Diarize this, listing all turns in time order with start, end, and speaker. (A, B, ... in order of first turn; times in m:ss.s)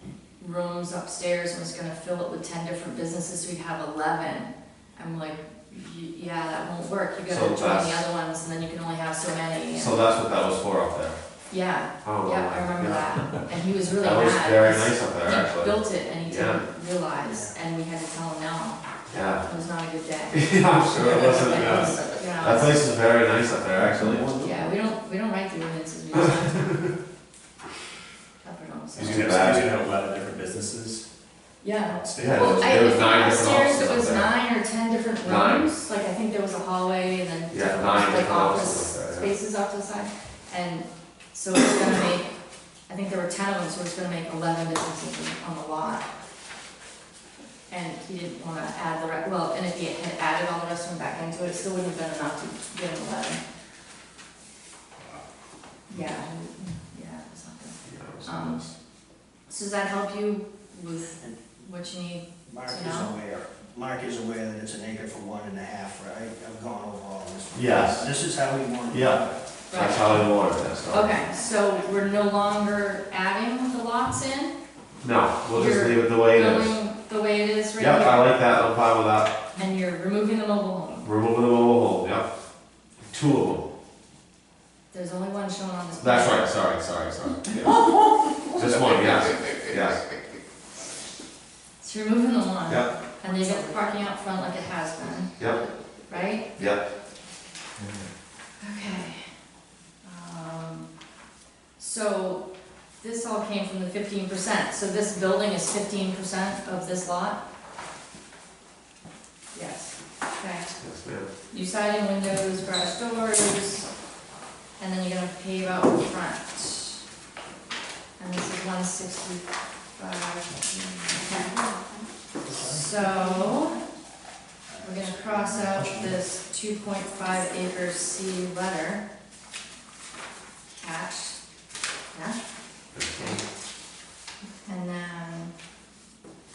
0:00.4-0:10.0 A
0:07.3-0:08.0 B
0:09.7-0:11.2 B
0:11.5-0:18.8 A
0:12.0-0:13.0 B
0:14.0-0:16.6 B
0:17.2-0:17.5 C
0:19.1-0:19.4 B
0:19.4-0:22.9 A
0:20.3-0:24.7 B
0:24.4-0:26.9 A
0:28.4-0:29.4 A
0:28.9-0:29.7 B
0:29.0-0:31.0 D
0:31.6-0:42.3 A
0:31.8-0:32.7 D
0:32.2-0:34.3 B
0:35.2-0:35.7 B
0:37.5-0:39.3 B
0:42.9-0:46.0 A
0:47.7-0:53.4 A
0:55.9-0:58.6 A
0:57.8-0:58.7 B
0:59.5-1:03.1 A
1:02.5-1:09.4 C
1:07.5-1:08.1 B
1:08.9-1:09.2 B
1:09.7-1:10.2 A
1:09.7-1:11.1 B
1:10.9-1:14.5 A
1:15.0-1:16.8 B
1:15.5-1:18.3 A
1:17.8-1:19.3 B
1:19.5-1:21.1 A
1:21.0-1:22.3 B
1:23.1-1:23.7 B
1:24.9-1:26.4 A
1:26.0-1:27.8 B
1:28.5-1:30.0 B
1:31.8-1:35.4 A
1:36.1-1:36.6 A
1:38.6-1:39.2 A
1:40.0-1:40.9 A
1:41.8-1:42.4 A
1:43.0-1:47.4 A
1:49.5-1:50.8 A
1:50.8-1:51.3 B
1:51.5-1:53.9 A
1:54.8-1:57.0 A
1:58.2-2:01.5 A
2:02.4-2:03.0 C
2:02.6-2:03.8 A
2:04.7-2:06.2 C
2:04.8-2:09.0 A
2:10.7-2:11.4 A
2:12.1-2:12.4 A
2:12.9-2:13.4 B
2:14.6-2:15.5 A